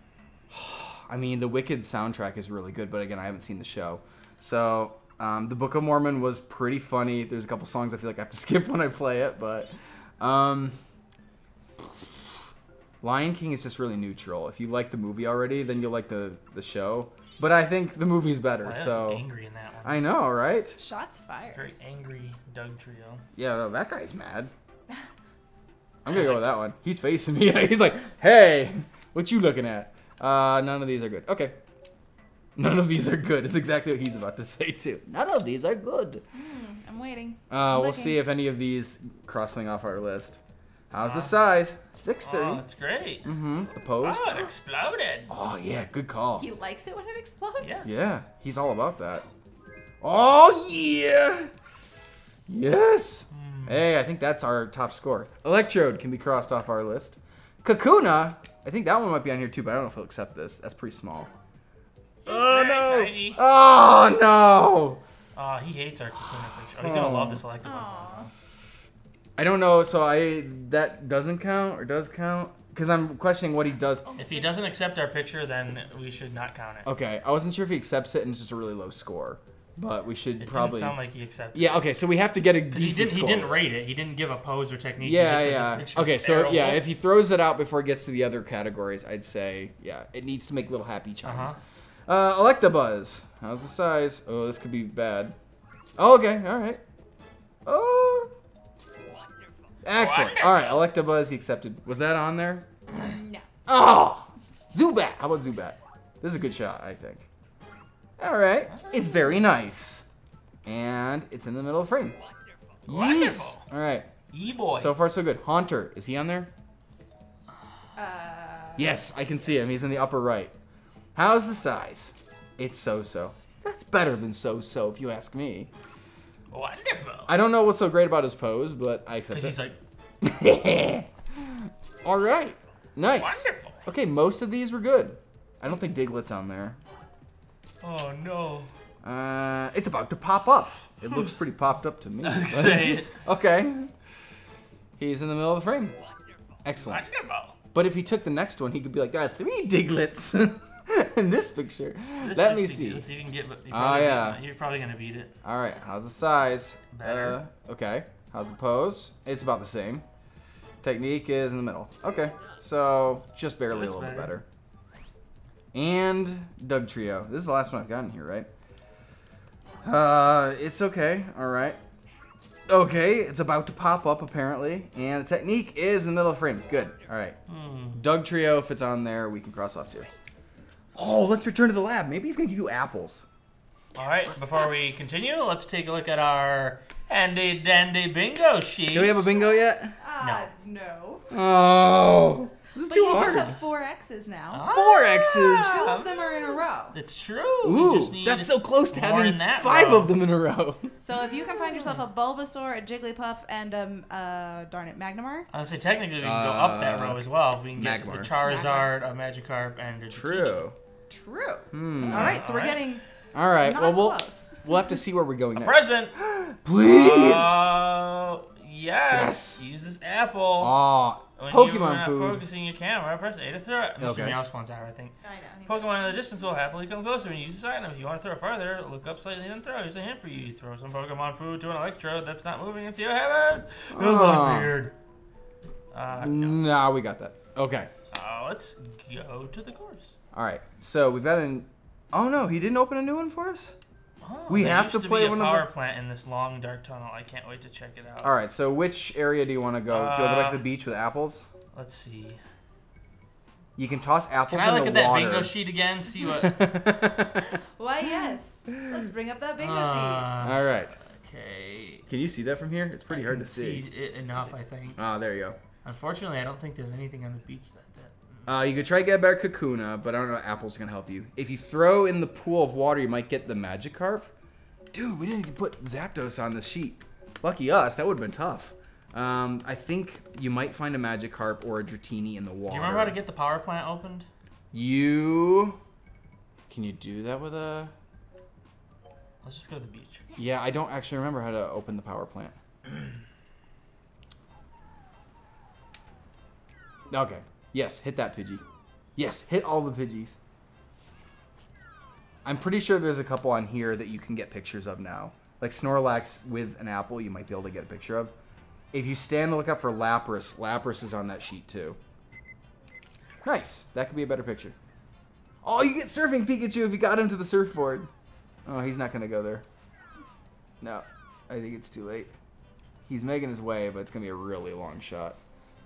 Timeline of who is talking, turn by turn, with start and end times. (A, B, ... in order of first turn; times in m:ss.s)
0:00.5-0:10.8 A
0:11.8-0:12.1 A
0:13.0-0:19.2 A
0:18.6-0:20.0 B
0:19.8-0:20.8 A
0:20.8-0:21.6 C
0:21.5-0:23.2 B
0:23.4-0:24.5 A
0:26.0-0:31.6 A
0:26.1-0:26.4 B
0:32.6-0:36.2 A
0:36.3-0:38.2 C
0:37.5-0:42.6 A
0:41.0-0:41.4 B
0:42.2-0:43.3 B
0:43.2-0:44.5 A
0:44.0-0:45.3 B
0:45.3-0:46.5 A
0:46.4-0:47.9 C
0:47.6-0:47.9 B
0:47.8-0:49.2 A
0:50.0-0:51.5 A
0:52.5-1:01.3 A
0:53.3-0:53.8 B
1:02.2-1:03.4 B
1:02.2-1:05.0 A
1:05.4-1:08.3 B
1:06.8-1:07.4 A
1:07.6-1:08.3 C
1:09.4-1:14.1 A
1:14.1-1:14.5 C
1:14.2-1:16.9 B
1:16.8-1:21.0 A
1:20.4-1:21.8 B
1:21.5-1:23.6 A
1:22.7-1:26.8 B
1:25.0-1:35.4 A
1:31.2-1:31.6 B
1:36.0-1:36.8 A
1:37.6-1:38.3 A
1:39.8-1:42.7 A
1:40.0-1:40.8 B
1:43.0-1:43.4 C
1:43.6-1:47.3 A
1:48.2-1:50.0 A
1:50.6-1:52.2 A
1:52.9-1:54.1 A
1:52.9-1:53.6 B
1:54.3-1:54.9 B
1:54.8-1:56.5 A
1:58.0-1:59.6 C
1:58.8-2:00.5 A
2:01.1-2:05.7 A
2:06.5-2:07.3 B
2:07.3-2:09.6 A
2:09.3-2:09.8 B
2:10.2-2:16.8 A
2:13.1-2:13.8 B
2:17.8-2:18.7 B
2:19.0-2:23.9 A
2:22.2-2:23.4 B
2:25.0-2:26.0 A
2:26.6-2:27.1 A
2:26.8-2:27.6 B
2:27.7-2:33.1 A
2:32.2-2:35.3 B
2:33.7-2:34.4 A
2:35.4-2:40.0 A
2:36.9-2:37.4 B
2:40.8-2:44.4 A
2:43.7-2:44.3 B
2:45.7-2:48.5 A
2:49.8-2:51.8 A
2:52.7-2:57.4 A
2:57.5-2:58.0 B
2:57.9-3:00.1 A
3:00.9-3:03.2 A
3:04.0-3:09.3 B
3:04.2-3:04.9 A
3:08.9-3:09.9 A
3:09.3-3:11.3 C
3:10.2-3:10.5 B
3:11.3-3:13.6 A
3:12.8-3:14.7 C
3:14.5-3:20.1 B
3:14.7-3:15.9 A
3:15.3-3:17.0 C
3:17.6-3:20.9 A
3:21.0-3:25.5 C
3:21.7-3:22.0 B
3:25.5-3:30.6 B
3:26.2-3:27.2 A
3:27.8-3:28.3 A
3:28.4-3:28.9 C
3:30.1-3:30.8 A
3:31.1-3:33.0 C
3:31.7-3:32.4 A
3:32.0-3:32.8 B
3:33.3-3:37.6 A
3:33.6-3:34.8 C
3:35.5-3:36.1 B
3:36.8-3:40.8 B
3:39.1-3:39.6 A
3:40.6-3:42.4 A
3:41.4-3:45.1 B
3:44.0-3:44.4 A
3:45.2-3:46.2 C
3:45.6-3:54.9 B
3:53.9-3:54.8 A
3:55.9-3:56.6 B
3:56.1-3:57.9 A
3:58.1-4:00.2 B
4:00.3-4:03.8 A
4:04.2-4:08.3 B
4:04.5-4:05.6 A
4:08.2-4:11.5 A
4:09.9-4:10.6 B
4:11.7-4:12.4 B
4:13.8-4:15.5 A
4:14.5-4:16.6 B
4:16.2-4:17.6 A
4:17.8-4:20.3 C
4:18.7-4:19.0 A
4:19.6-4:22.0 B
4:20.4-4:20.9 A
4:22.1-4:23.8 A
4:23.1-4:25.0 B
4:25.0-4:25.6 A
4:25.8-4:28.5 B
4:28.4-4:34.3 A
4:34.9-4:43.2 A
4:42.7-4:44.3 B
4:44.7-4:45.8 A
4:46.7-4:47.9 A
4:49.4-4:50.2 B
4:50.4-4:52.5 A
4:57.1-4:58.6 A
4:59.2-5:00.4 A
5:02.4-5:08.3 A
5:08.9-5:12.0 A
5:13.4-5:14.7 A
5:15.6-5:18.1 A
5:18.6-5:19.6 A
5:20.8-5:22.3 A
5:23.1-5:25.4 A